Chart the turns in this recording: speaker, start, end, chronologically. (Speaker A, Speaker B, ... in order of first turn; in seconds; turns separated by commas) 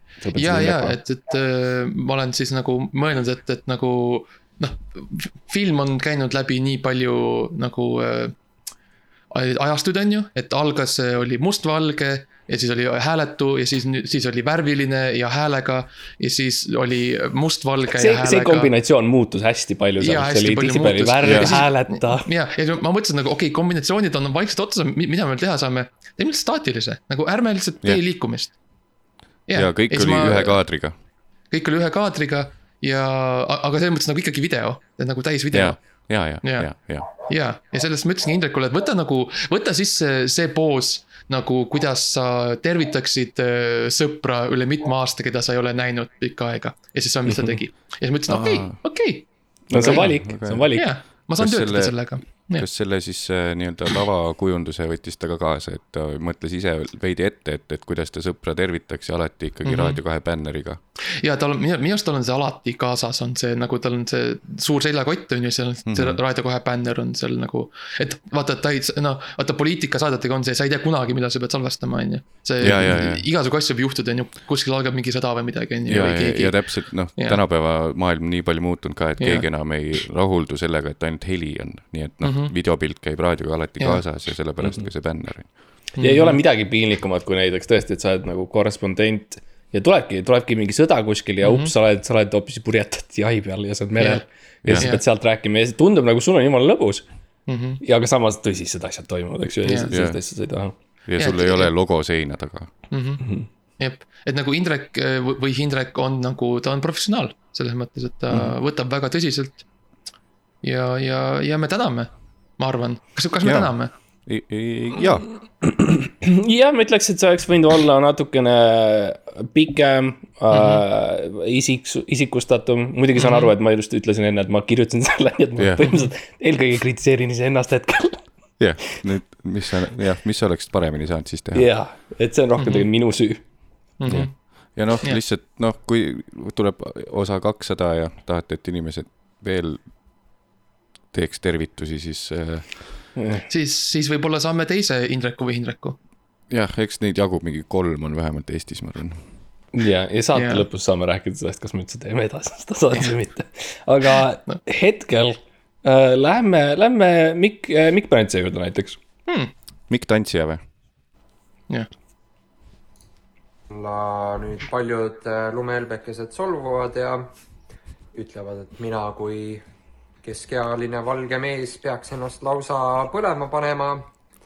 Speaker A: 0.2-1.0, Speaker B: 0.3-8.3, Speaker B: 9.3-18.7, Speaker A: 17.9-22.3, Speaker B: 20.0-28.6, Speaker C: 21.2-21.6, Speaker B: 29.5-30.6, Speaker C: 29.5-30.9, Speaker B: 31.5-50.1, Speaker C: 35.5-37.1, Speaker A: 47.3-47.6, Speaker C: 48.3-48.9, Speaker C: 49.7-60.8, Speaker A: 49.7-50.9, Speaker B: 50.7-52.7, Speaker B: 59.6-60.0, Speaker B: 61.2-77.4, Speaker C: 65.9-66.2, Speaker C: 72.6-73.2, Speaker C: 75.8-85.8, Speaker B: 79.2-79.4, Speaker B: 82.2-82.5, Speaker B: 86.0-86.4, Speaker A: 86.0-97.0, Speaker B: 91.4-91.7, Speaker B: 94.0-94.2, Speaker C: 94.6-94.9, Speaker B: 97.5-97.8, Speaker A: 97.8-100.7, Speaker B: 99.6-99.9, Speaker C: 99.9-100.2, Speaker C: 101.0-102.7, Speaker B: 101.2-101.7, Speaker B: 102.9-103.2, Speaker A: 103.2-103.5, Speaker B: 103.8-109.6, Speaker B: 110.6-113.9, Speaker C: 113.4-113.7, Speaker C: 114.2-115.3, Speaker A: 115.6-128.2, Speaker B: 120.5-120.8, Speaker B: 123.2-123.5, Speaker C: 125.6-125.9, Speaker C: 128.6-131.7, Speaker A: 131.5-134.3, Speaker B: 132.6-132.9, Speaker B: 134.0-135.2, Speaker C: 134.1-139.9, Speaker C: 141.1-143.1, Speaker A: 143.2-143.4, Speaker B: 143.5-146.0, Speaker C: 146.5-149.2, Speaker A: 149.7-159.0, Speaker B: 150.3-150.7, Speaker C: 159.9-160.6, Speaker D: 163.7-167.3, Speaker D: 168.1-169.7, Speaker D: 170.2-174.1